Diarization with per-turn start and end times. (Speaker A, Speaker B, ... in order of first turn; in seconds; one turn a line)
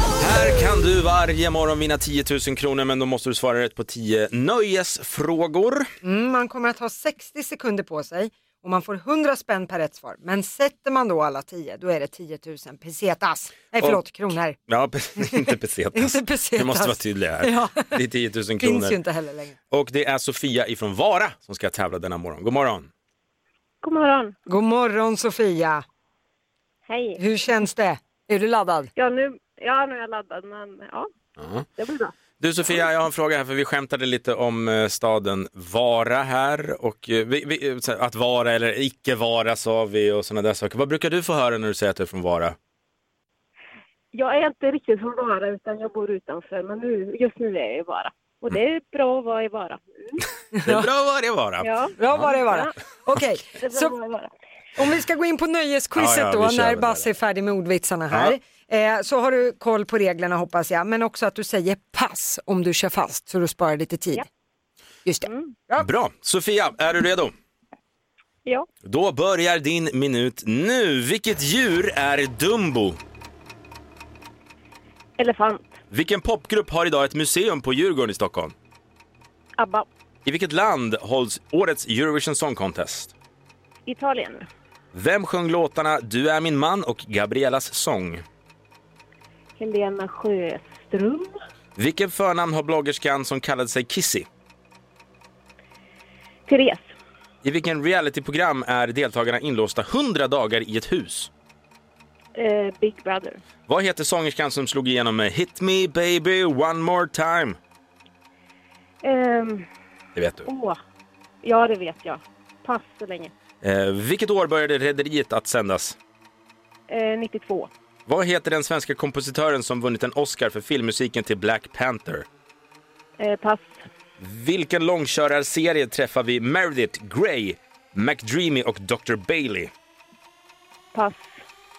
Speaker A: 0.2-5.9
Speaker B: 6.0-14.6
Speaker A: 14.7-19.0
Speaker B: 15.9-17.9
Speaker B: 18.6-19.6
Speaker A: 19.7-22.9
Speaker C: 23.8-24.4
Speaker B: 24.5-25.8
Speaker C: 26.9-27.2
Speaker B: 27.2-28.9
Speaker C: 29.0-31.1
Speaker A: 31.4-31.7
Speaker C: 31.8-32.1
Speaker A: 32.4-42.6
Speaker C: 44.1-50.2
Speaker B: 50.5-50.9
Speaker A: 50.7-52.3
Speaker C: 51.6-52.7
Speaker B: 52.0-53.9
Speaker C: 53.6-54.3
Speaker B: 54.8-64.2
Speaker A: 56.0-57.1
Speaker A: 58.1-58.4
Speaker B: 65.0-65.9
Speaker C: 65.2-65.5
Speaker A: 65.8-67.3
Speaker A: 68.8-73.0
Speaker C: 75.2-75.8
Speaker A: 75.9-78.5
Speaker C: 79.6-79.9
Speaker A: 80.2-83.1
Speaker C: 83.9-84.5
Speaker A: 84.9-88.2
Speaker C: 89.6-91.4
Speaker A: 91.8-94.3
Speaker C: 96.5-96.8
Speaker A: 97.4-101.3
Speaker C: 102.4-103.4
Speaker A: 103.7-107.6
Speaker C: 109.0-109.7
Speaker A: 110.2-110.5
Speaker C: 110.5-110.8
Speaker C: 111.4-113.3
Speaker A: 113.6-116.0
Speaker C: 116.9-117.7
Speaker A: 118.1-122.3
Speaker C: 123.2-123.8
Speaker A: 124.2-129.7
Speaker C: 130.9-131.3